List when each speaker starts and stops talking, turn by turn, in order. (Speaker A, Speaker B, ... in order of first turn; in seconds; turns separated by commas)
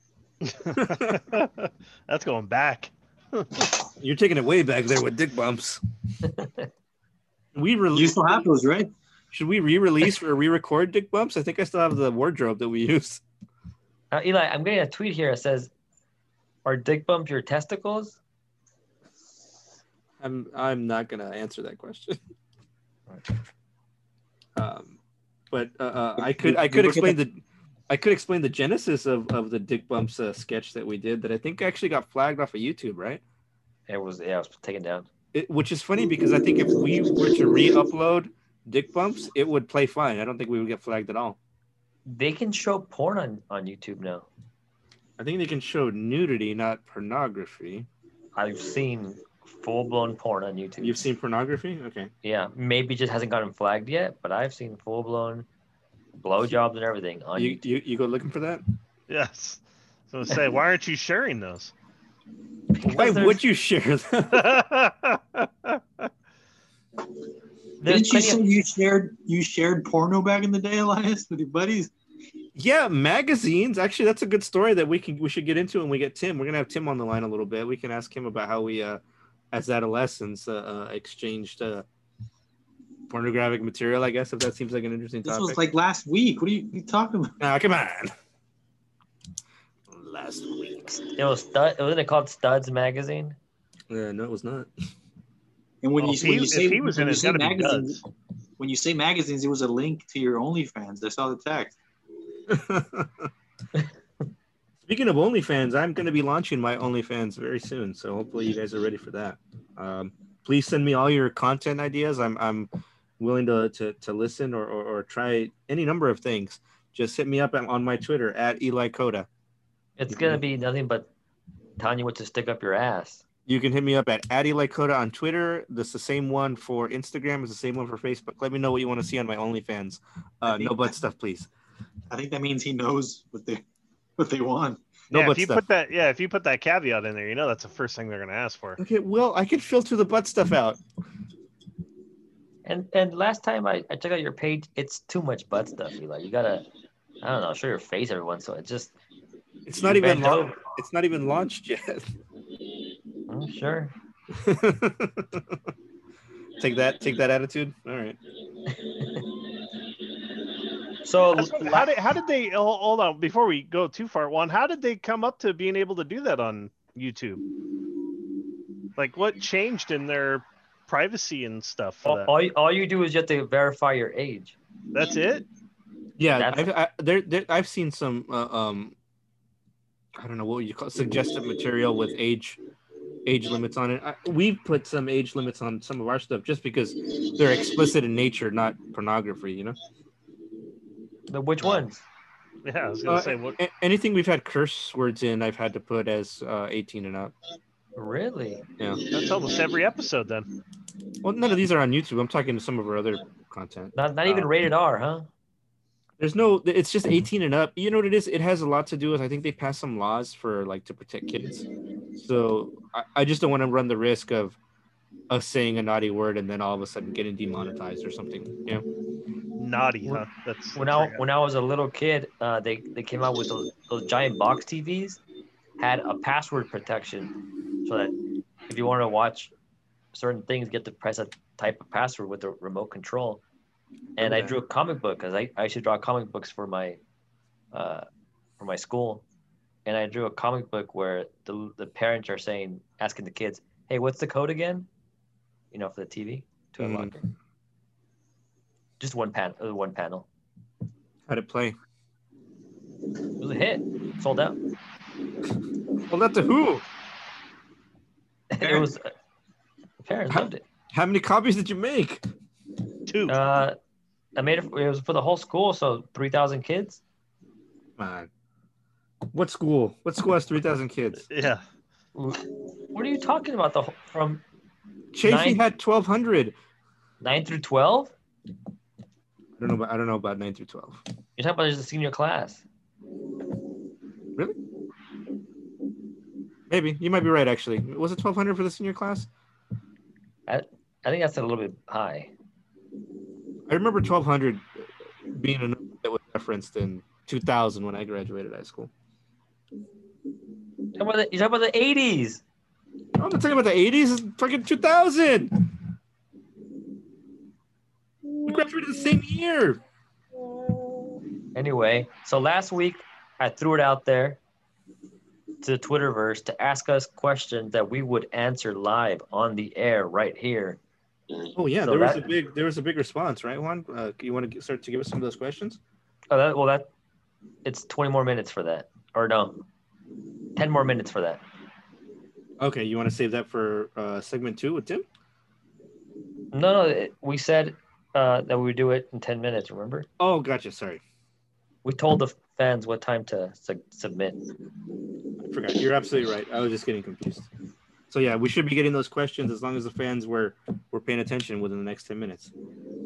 Speaker A: 0.4-3.7, Speaker B: 0.8-1.2, Speaker B: 4.0-5.8, Speaker C: 6.3-6.6, Speaker B: 7.5-8.2, Speaker D: 7.9-8.9, Speaker B: 9.3-13.2, Speaker C: 14.1-15.7, Speaker C: 16.6-18.2, Speaker B: 20.2-22.2, Speaker B: 24.6-25.0, Speaker B: 25.5-33.2, Speaker D: 26.2-27.1, Speaker C: 33.9-35.1, Speaker B: 35.3-41.4, Speaker C: 42.0-44.3, Speaker B: 45.2-47.9, Speaker C: 48.4-51.1, Speaker B: 50.8-52.1, Speaker C: 52.2-55.5, Speaker C: 56.2-57.6, Speaker B: 57.3-58.6, Speaker A: 59.1-61.7, Speaker C: 62.8-63.4, Speaker B: 62.8-64.6, Speaker A: 64.3-66.0, Speaker C: 67.8-68.4, Speaker D: 67.8-71.9, Speaker B: 72.5-79.0, Speaker B: 79.5-81.8, Speaker B: 83.1-85.6, Speaker D: 85.2-87.3, Speaker B: 87.4-88.1, Speaker B: 89.9-90.8, Speaker C: 90.8-93.3, Speaker B: 93.9-94.7, Speaker D: 95.8-98.0, Speaker A: 96.0-98.0, Speaker D: 98.6-101.8, Speaker B: 102.5-103.3, Speaker B: 104.8-119.3, Speaker C: 120.0-121.1, Speaker B: 120.1-120.4, Speaker C: 121.8-123.2, Speaker B: 123.5-131.5, Speaker D: 130.5-130.9, Speaker D: 132.1-133.6, Speaker D: 134.2-134.8, Speaker B: 135.1-135.6, Speaker A: 135.1-138.8, Speaker B: 138.8-140.8, Speaker C: 142.6-146.7, Speaker C: 147.2-148.9, Speaker B: 149.7-152.1, Speaker C: 149.8-150.6, Speaker C: 153.3-153.9, Speaker B: 154.3-155.6, Speaker B: 156.6-158.2, Speaker C: 158.8-159.2, Speaker C: 161.0-161.9, Speaker A: 161.3-167.4, Speaker A: 168.9-172.3, Speaker C: 172.0-174.6, Speaker A: 174.9-175.4, Speaker B: 176.2-178.9, Speaker C: 176.3-176.7, Speaker B: 180.2-182.6, Speaker B: 183.2-189.8, Speaker C: 191.3-192.0, Speaker A: 192.6-193.6, Speaker B: 193.1-197.3, Speaker C: 197.9-198.6, Speaker A: 199.1-200.5, Speaker B: 201.2-204.5, Speaker C: 203.9-205.3, Speaker B: 206.2-211.6, Speaker B: 212.2-214.6, Speaker B: 215.3-218.8, Speaker A: 219.6-221.2, Speaker C: 220.8-225.2, Speaker C: 225.8-228.1, Speaker C: 228.7-229.5, Speaker C: 230.1-233.4, Speaker C: 234.2-237.0, Speaker B: 234.2-234.6, Speaker C: 237.7-238.1, Speaker C: 238.6-239.2, Speaker C: 239.8-244.9, Speaker C: 245.7-247.2, Speaker B: 246.8-247.2, Speaker C: 249.0-250.3, Speaker B: 251.3-251.7, Speaker C: 253.4-254.6, Speaker B: 256.1-256.8, Speaker C: 258.5-259.1, Speaker C: 260.0-260.6, Speaker B: 260.3-262.2, Speaker A: 263.1-263.3, Speaker C: 263.3-263.8, Speaker C: 264.4-267.0, Speaker B: 268.0-268.3, Speaker B: 269.3-271.2, Speaker A: 271.3-271.6, Speaker C: 272.1-274.4, Speaker B: 275.1-276.5, Speaker C: 275.2-275.6, Speaker C: 277.2-278.1, Speaker B: 279.6-281.0, Speaker C: 281.4-282.6, Speaker B: 286.7-289.3, Speaker C: 290.5-292.3, Speaker B: 293.7-298.9, Speaker C: 300.9-302.4, Speaker B: 303.1-305.7, Speaker B: 308.4-309.8, Speaker C: 311.5-314.4, Speaker C: 315.6-320.8, Speaker B: 321.6-325.8, Speaker C: 321.8-322.3, Speaker C: 326.3-326.9, Speaker C: 327.6-329.6, Speaker C: 330.6-331.4, Speaker B: 332.6-335.0, Speaker C: 336.5-340.1, Speaker B: 340.2-341.0, Speaker C: 341.8-344.4, Speaker B: 345.4-347.5, Speaker B: 348.1-352.5